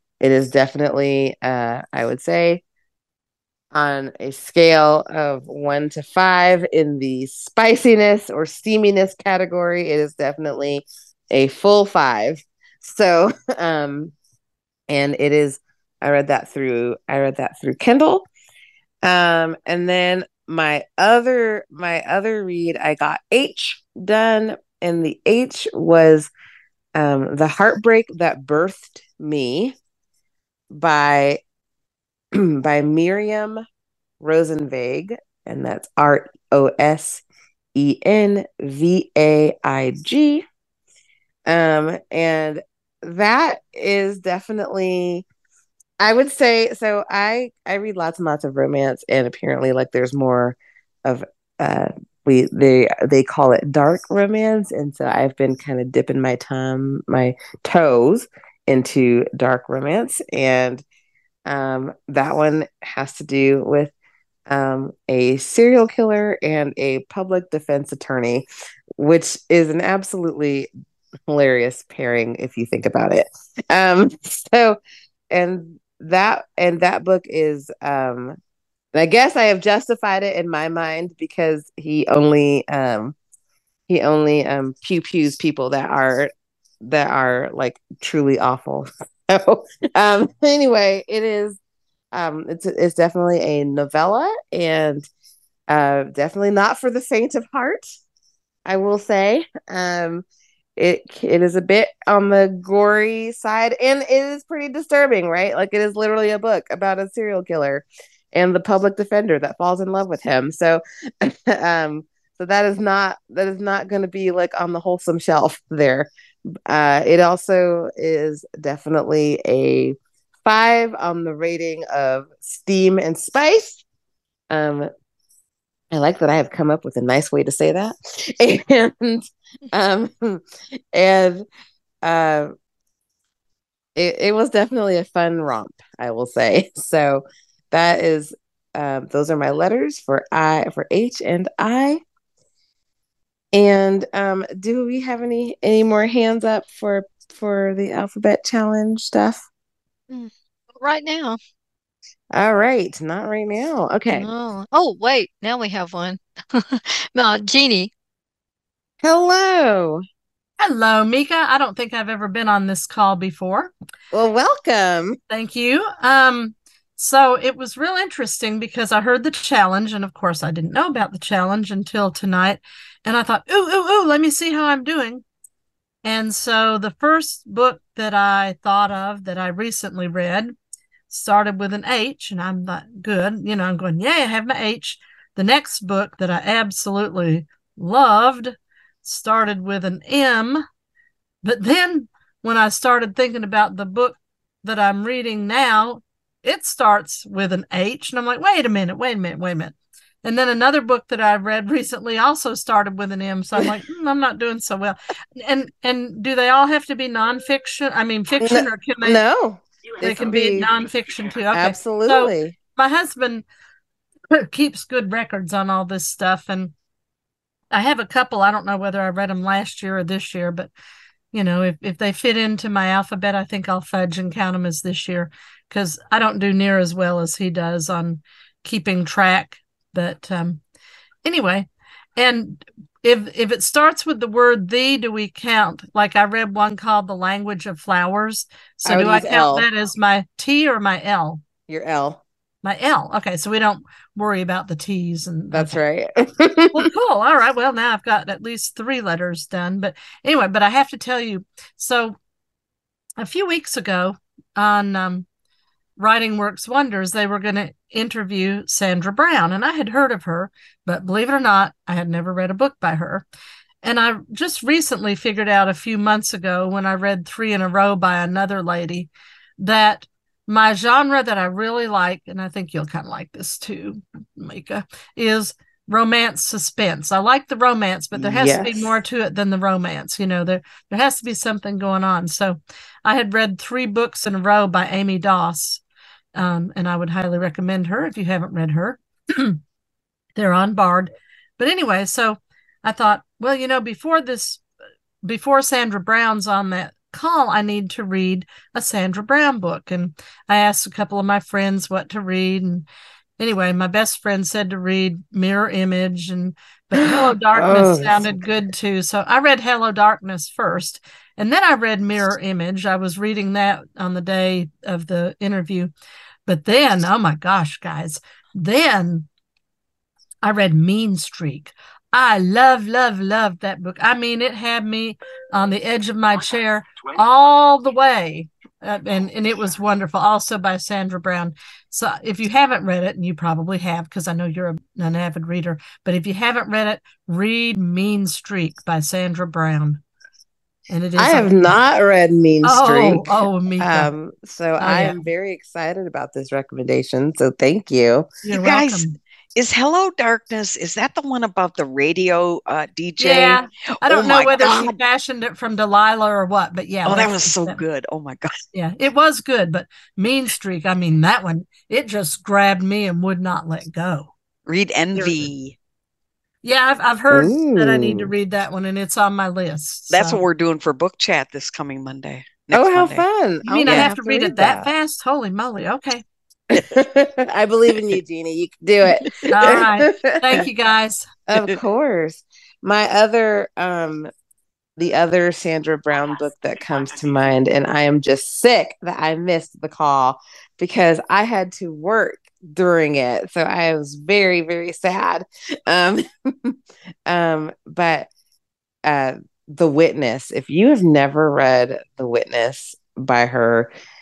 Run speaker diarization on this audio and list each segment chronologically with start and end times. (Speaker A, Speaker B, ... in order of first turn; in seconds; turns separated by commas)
Speaker A: 0.2-2.6, Speaker A: 3.7-14.1, Speaker A: 14.9-18.3, Speaker A: 19.0-26.3, Speaker A: 27.0-29.8, Speaker A: 30.7-31.4, Speaker A: 32.4-33.6, Speaker A: 34.2-37.2, Speaker A: 37.8-40.5, Speaker A: 41.5-45.2, Speaker A: 46.0-60.8, Speaker A: 61.5-63.9, Speaker A: 64.5-68.5, Speaker A: 69.0-70.7, Speaker A: 71.3-74.8, Speaker A: 75.3-78.4, Speaker A: 78.9-83.2, Speaker A: 83.9-86.3, Speaker A: 86.8-91.6, Speaker A: 92.1-95.1, Speaker A: 95.7-97.9, Speaker A: 98.7-100.2, Speaker A: 100.8-116.1, Speaker A: 116.7-120.0, Speaker A: 120.5-123.8, Speaker A: 124.5-124.9, Speaker A: 125.9-130.4, Speaker A: 130.9-131.4, Speaker A: 132.0-132.5, Speaker A: 134.0-142.0, Speaker A: 143.5-149.4, Speaker B: 150.1-151.4, Speaker A: 152.3-154.3, Speaker B: 154.1-157.9, Speaker A: 159.0-160.0, Speaker C: 160.6-163.7, Speaker A: 164.1-165.2, Speaker C: 165.3-175.2, Speaker C: 176.0-180.6, Speaker C: 181.1-190.6, Speaker C: 191.4-209.2, Speaker A: 208.4-210.7, Speaker C: 210.0-213.4, Speaker A: 211.5-212.6, Speaker C: 214.3-216.7, Speaker C: 217.7-220.7, Speaker C: 221.3-230.6, Speaker C: 231.2-241.4, Speaker A: 238.9-239.7, Speaker A: 241.7-242.2, Speaker C: 242.6-245.8, Speaker A: 245.5-246.9, Speaker C: 246.7-252.2, Speaker C: 253.2-255.3, Speaker C: 256.0-263.2, Speaker C: 263.8-285.8, Speaker A: 278.1-278.9, Speaker C: 286.4-289.6, Speaker C: 290.4-294.6, Speaker C: 295.2-302.9, Speaker C: 303.4-315.9, Speaker A: 307.0-308.4, Speaker C: 316.5-319.3, Speaker C: 320.4-340.0, Speaker C: 340.9-341.8, Speaker A: 341.2-348.3, Speaker C: 342.6-344.1, Speaker C: 344.8-345.2, Speaker C: 348.4-349.2, Speaker D: 348.5-355.0, Speaker C: 353.2-357.8, Speaker D: 357.1-358.5, Speaker C: 358.7-364.3, Speaker D: 364.7-365.8, Speaker C: 365.2-365.4, Speaker C: 366.6-370.4, Speaker A: 367.3-368.3, Speaker D: 370.1-373.2, Speaker A: 372.7-374.9, Speaker C: 373.6-376.2, Speaker D: 373.8-374.1, Speaker A: 376.7-380.6, Speaker C: 379.5-381.3, Speaker A: 381.5-384.3, Speaker A: 385.0-396.8, Speaker A: 397.3-398.3, Speaker A: 399.1-403.9